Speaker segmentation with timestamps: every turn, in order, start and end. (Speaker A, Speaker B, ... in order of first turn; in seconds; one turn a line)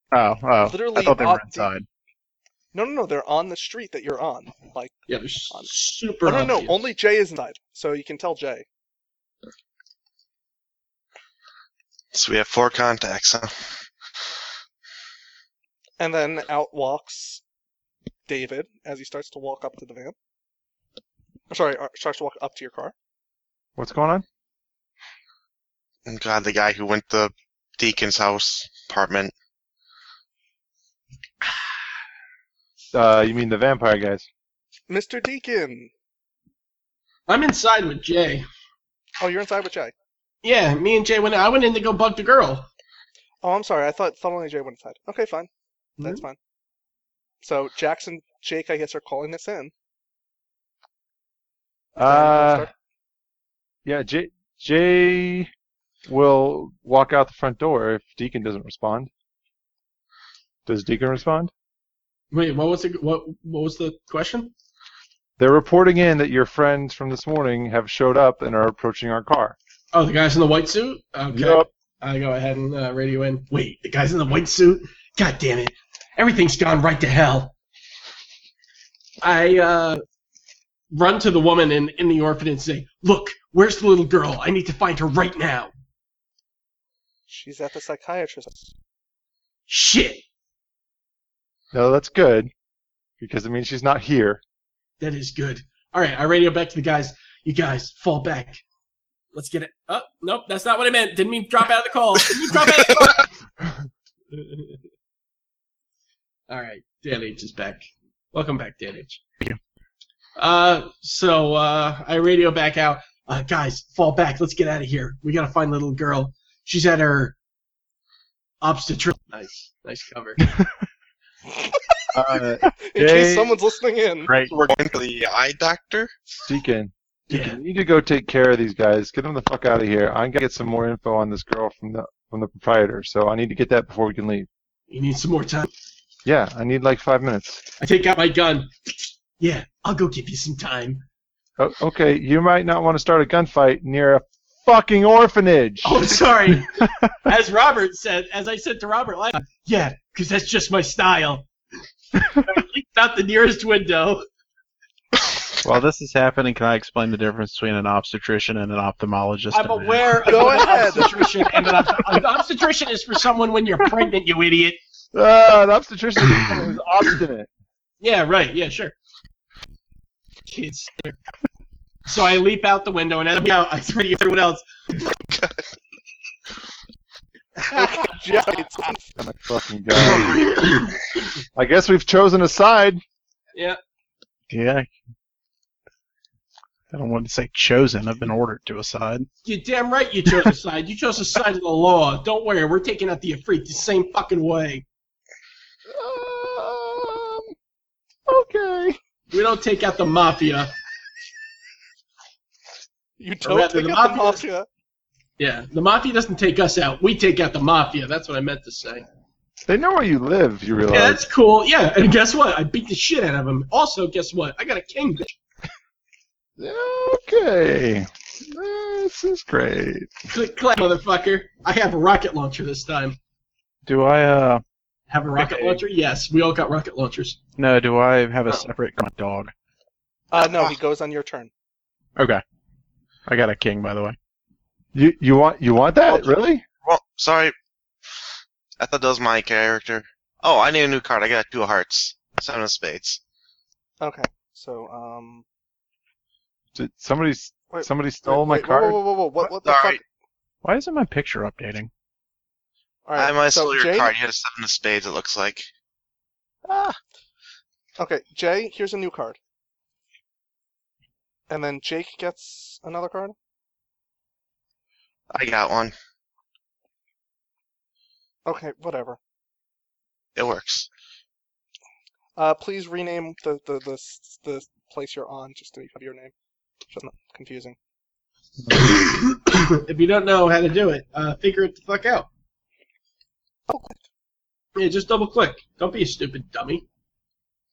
Speaker A: 0.1-1.9
Speaker B: 0.6-1.7
Speaker B: 2.7-5.0
Speaker C: 5.1-6.9
Speaker B: 5.5-8.7
Speaker D: 12.1-13.8
Speaker B: 16.0-17.4
Speaker B: 18.3-20.1
Speaker B: 21.5-22.9
Speaker E: 23.8-24.2
Speaker D: 26.1-29.3
Speaker E: 32.9-34.3
Speaker B: 34.9-35.9
Speaker C: 37.3-38.5
Speaker B: 39.2-39.9
Speaker C: 40.4-42.7
Speaker B: 43.4-45.5
Speaker B: 46.0-46.4
Speaker B: 47.4-49.7
Speaker E: 52.0-52.7
Speaker B: 52.0-52.7
Speaker E: 53.9-55.5
Speaker E: 56.1-59.1
Speaker E: 60.7-61.5
Speaker C: 62.3-64.5
Speaker E: 65.4-69.6
Speaker C: 69.9-77.5
Speaker E: 71.3-71.7
Speaker C: 79.2-80.0
Speaker C: 80.9-85.7
Speaker B: 87.3-88.7
Speaker C: 89.7-90.2
Speaker E: 91.7-92.5
Speaker E: 93.2-94.4
Speaker C: 95.0-98.6
Speaker C: 99.3-103.3
Speaker C: 104.3-104.8
Speaker C: 106.5-109.2
Speaker C: 110.4-117.4
Speaker C: 118.6-120.4
Speaker E: 122.1-123.6
Speaker B: 122.9-124.3
Speaker A: 124.3-124.5
Speaker D: 124.4-126.1
Speaker E: 126.4-134.5
Speaker C: 127.3-127.6
Speaker C: 134.9-135.7
Speaker E: 136.2-137.7
Speaker C: 137.8-141.0
Speaker E: 141.6-146.2
Speaker C: 145.8-151.5
Speaker C: 152.3-154.3
Speaker A: 155.7-160.9
Speaker C: 159.5-164.8
Speaker B: 160.2-161.3
Speaker E: 165.1-167.5
Speaker C: 168.0-168.9
Speaker C: 170.5-171.2
Speaker C: 172.1-174.7
Speaker D: 175.3-175.6
Speaker C: 177.7-178.1
Speaker B: 177.7-179.1
Speaker E: 179.2-180.7
Speaker C: 180.1-180.9
Speaker E: 181.6-183.0
Speaker A: 184.5-184.9
Speaker A: 186.9-189.3
Speaker C: 189.4-194.8
Speaker E: 195.9-197.5
Speaker E: 198.3-199.0
Speaker C: 199.3-200.7
Speaker B: 203.2-204.7
Speaker C: 203.4-204.4
Speaker C: 205.4-209.1
Speaker E: 209.7-211.2
Speaker C: 210.9-215.4
Speaker E: 216.6-220.1
Speaker C: 220.3-223.2
Speaker A: 223.9-224.6
Speaker C: 225.1-227.4
Speaker A: 225.4-225.8
Speaker A: 227.6-229.5
Speaker B: 230.3-231.5
Speaker D: 230.4-230.8
Speaker A: 232.2-232.4
Speaker A: 233.3-234.2
Speaker E: 234.9-236.6
Speaker D: 236.1-236.3
Speaker D: 236.8-237.5
Speaker D: 238.8-243.2
Speaker B: 244.0-245.4
Speaker E: 246.8-249.0
Speaker B: 247.7-250.0
Speaker D: 249.6-250.0
Speaker A: 250.6-251.9
Speaker B: 253.1-254.1
Speaker D: 253.2-255.7
Speaker B: 258.0-259.4
Speaker B: 261.5-263.4
Speaker D: 265.3-265.9
Speaker B: 268.4-269.2
Speaker D: 270.4-270.9
Speaker B: 272.4-276.3
Speaker B: 276.9-277.8
Speaker C: 278.7-282.3
Speaker B: 283.7-284.0
Speaker C: 284.8-286.8